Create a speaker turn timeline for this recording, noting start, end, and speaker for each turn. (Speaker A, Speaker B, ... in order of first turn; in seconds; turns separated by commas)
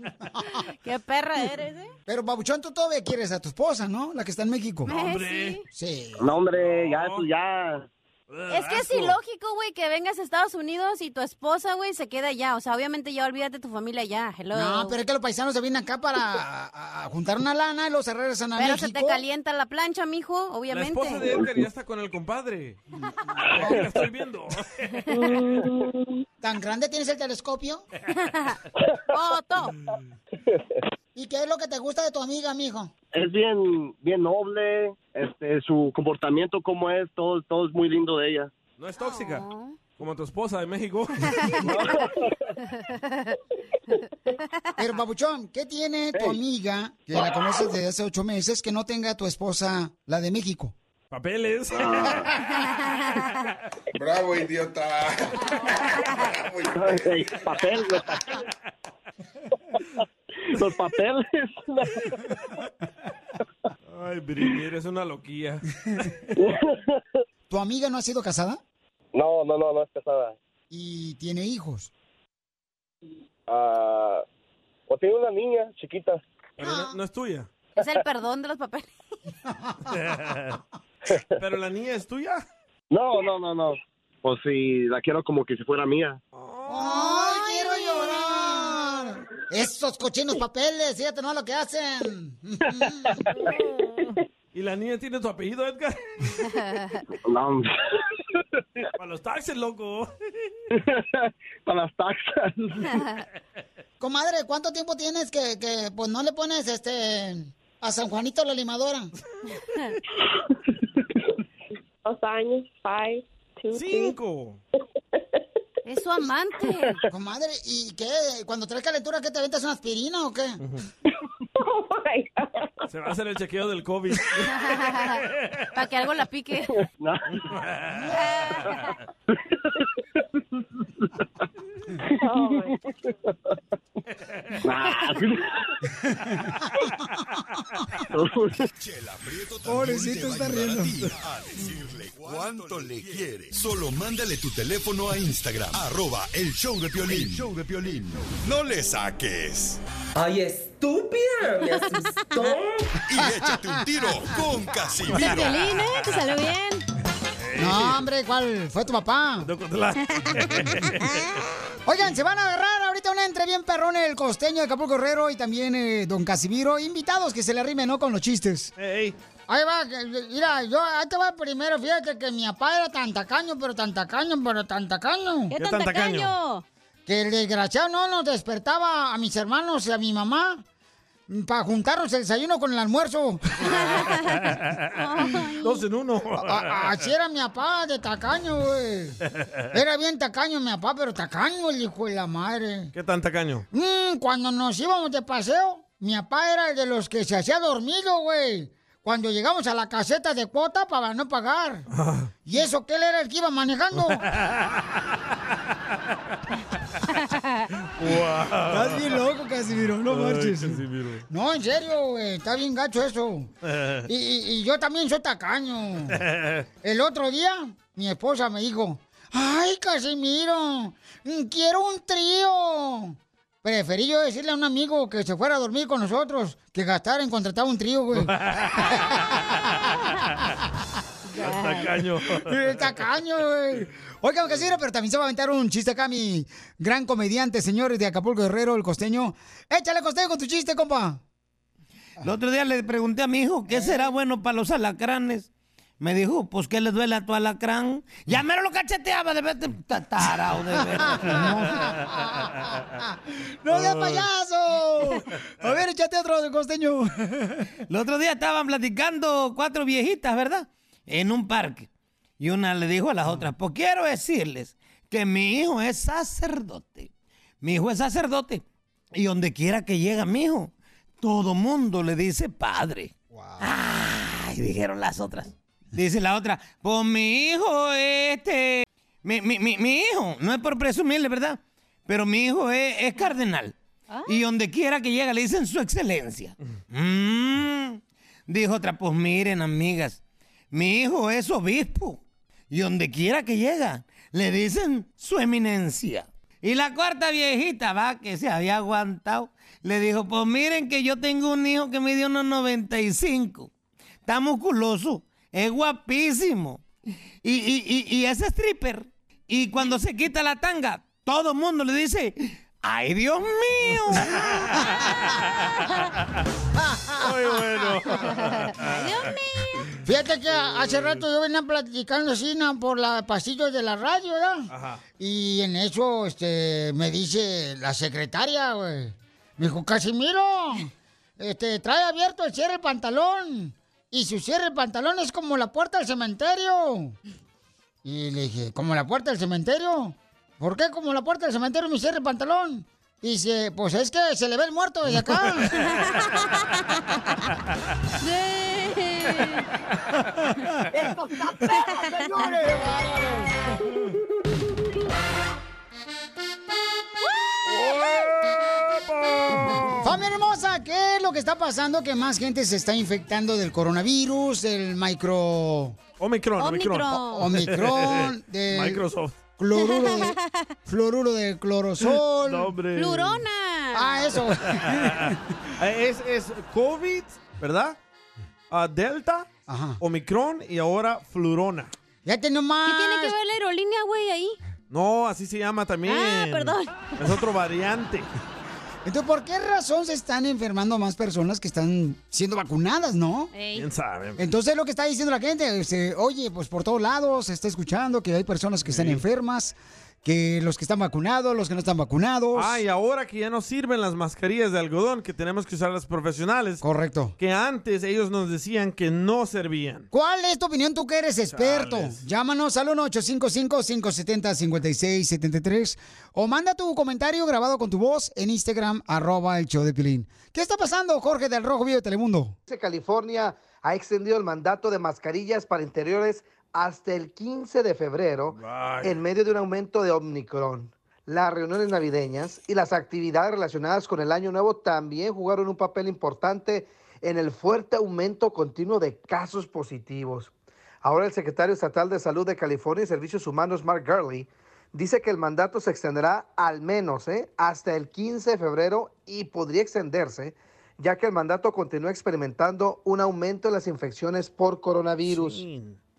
Speaker A: 0.8-1.9, Speaker B: 2.1-4.9, Speaker A: 4.9-5.6, Speaker C: 4.9-5.6, Speaker B: 5.7-6.3, Speaker D: 6.2-7.9, Speaker C: 6.5-7.3, Speaker C: 8.3-9.2, Speaker A: 8.5-15.0, Speaker B: 14.5-19.2, Speaker A: 18.6-21.3, Speaker C: 20.7-22.8, Speaker C: 23.5-24.9, Speaker E: 25.1-26.2, Speaker B: 26.4-27.8, Speaker A: 29.1-29.8, Speaker B: 31.1-32.9, Speaker D: 33.1-38.5, Speaker C: 38.8-39.5, Speaker A: 39.0-39.8, Speaker C: 40.0-42.0, Speaker D: 41.7-42.1, Speaker A: 42.9-43.3, Speaker B: 44.8-50.8, Speaker D: 46.1-46.4, Speaker C: 51.1-52.4, Speaker D: 51.8-52.0, Speaker D: 56.7-58.1, Speaker D: 60.6-62.0, Speaker C: 63.9-65.7, Speaker B: 67.5-68.6, Speaker D: 69.1-70.3, Speaker B: 70.7-71.9, Speaker D: 73.5-74.2, Speaker D: 74.9-76.2, Speaker C: 76.6-77.5, Speaker B: 76.6-77.0, Speaker A: 77.8-78.9, Speaker B: 79.5-80.0, Speaker C: 79.9-80.6, Speaker C: 81.4-82.4, Speaker D: 82.9-86.2, Speaker C: 86.3-87.0, Speaker B: 86.7-93.2, Speaker A: 86.8-88.3, Speaker C: 94.5-96.5, Speaker A: 96.5-96.9, Speaker D: 97.3-97.7, Speaker C: 99.0-100.1, Speaker D: 101.7-102.8, Speaker B: 104.0-109.1, Speaker E: 112.0-114.2, Speaker C: 113.7-114.6, Speaker A: 115.8-117.0, Speaker B: 117.1-120.6, Speaker E: 121.6-122.7, Speaker C: 122.9-124.5, Speaker A: 124.5-125.2, Speaker C: 125.1-125.7, Speaker A: 125.7-126.8, Speaker D: 127.0-127.3, Speaker C: 127.3-128.2, Speaker A: 128.2-128.7, Speaker E: 132.2-132.8, Speaker D: 134.6-135.4, Speaker D: 138.1-138.6, Speaker F: 138.8-149.8, Speaker B: 139.7-141.0, Speaker G: 150.2-152.9, Speaker F: 153.1-155.5, Speaker B: 153.2-153.8, Speaker A: 155.1-156.8, Speaker C: 155.3-155.8, Speaker C: 157.4-158.1, Speaker B: 157.6-159.5, Speaker C: 159.4-161.4, Speaker A: 160.2-160.5, Speaker B: 161.9-168.7, Speaker C: 168.8-169.2, Speaker B: 169.5-175.5, Speaker A: 175.5-176.7, Speaker C: 175.6-176.3, Speaker B: 177.1-180.6, Speaker B: 181.3-184.0, Speaker A: 183.7-185.8, Speaker C: 184.4-186.9, Speaker B: 186.4-189.2, Speaker B: 189.7-192.9, Speaker C: 192.9-193.7, Speaker B: 193.7-201.9, Speaker C: 201.9-202.3, Speaker B: 202.4-204.3, Speaker C: 203.9-205.0, Speaker C: 208.0-209.2, Speaker B: 208.7-213.5, Speaker C: 210.1-211.2, Speaker C: 213.6-214.1, Speaker B: 214.1-216.2, Speaker C: 216.1-216.7, Speaker B: 216.8-229.6, Speaker C: 228.2-230.3, Speaker A: 231.3-231.9, Speaker C: 231.4-232.9, Speaker B: 232.4-241.2, Speaker H: 242.2-245.5, Speaker B: 243.7-244.1, Speaker H: 246.0-251.3, Speaker B: 250.9-257.7, Speaker C: 253.7-254.2, Speaker H: 257.9-261.9, Speaker H: 262.4-267.1, Speaker H: 267.6-268.6, Speaker H: 269.1-283.8, Speaker B: 273.3-273.7, Speaker A: 284.1-284.4, Speaker H: 284.3-290.2, Speaker H: 290.7-303.7, Speaker H: 304.3-306.9, Speaker H: 307.4-314.6, Speaker C: 314.3-315.7, Speaker B: 316.8-318.0, Speaker C: 317.2-319.3, Speaker A: 318.3-319.8, Speaker B: 320.0-337.2, Speaker C: 320.6-321.2, Speaker C: 324.7-325.0, Speaker B: 338.0-345.8, Speaker A: 345.9-347.0, Speaker A: 348.2-349.7, Speaker A: 351.7-352.3, Speaker B: 352.1-353.3, Speaker C: 357.7-360.2, Speaker B: 360.0-366.0, Speaker C: 366.2-369.4, Speaker A: 366.6-367.5, Speaker B: 367.2-369.1, Speaker B: 369.6-372.8, Speaker A: 369.8-370.7, Speaker C: 372.1-373.4, Speaker A: 372.9-374.4, Speaker B: 373.9-375.4, Speaker C: 374.7-378.0, Speaker C: 378.7-379.5, Speaker B: 379.7-380.0, Speaker C: 380.0-381.9, Speaker B: 382.2-383.4, Speaker A: 382.9-384.6, Speaker C: 384.9-388.3, Speaker A: 386.1-387.1, Speaker B: 389.1-393.5, Speaker A: 393.5-393.9, Speaker C: 393.8-394.4, Speaker B: 394.4-402.8, Speaker C: 398.9-399.2, Speaker C: 402.5-406.8, Speaker B: 406.8-407.4, Speaker C: 407.4-410.1, Speaker B: 410.1-422.6, Speaker C: 411.5-412.2, Speaker I: 422.7-440.5, Speaker C: 428.5-429.2, Speaker I: 441.0-455.6, Speaker C: 455.3-456.0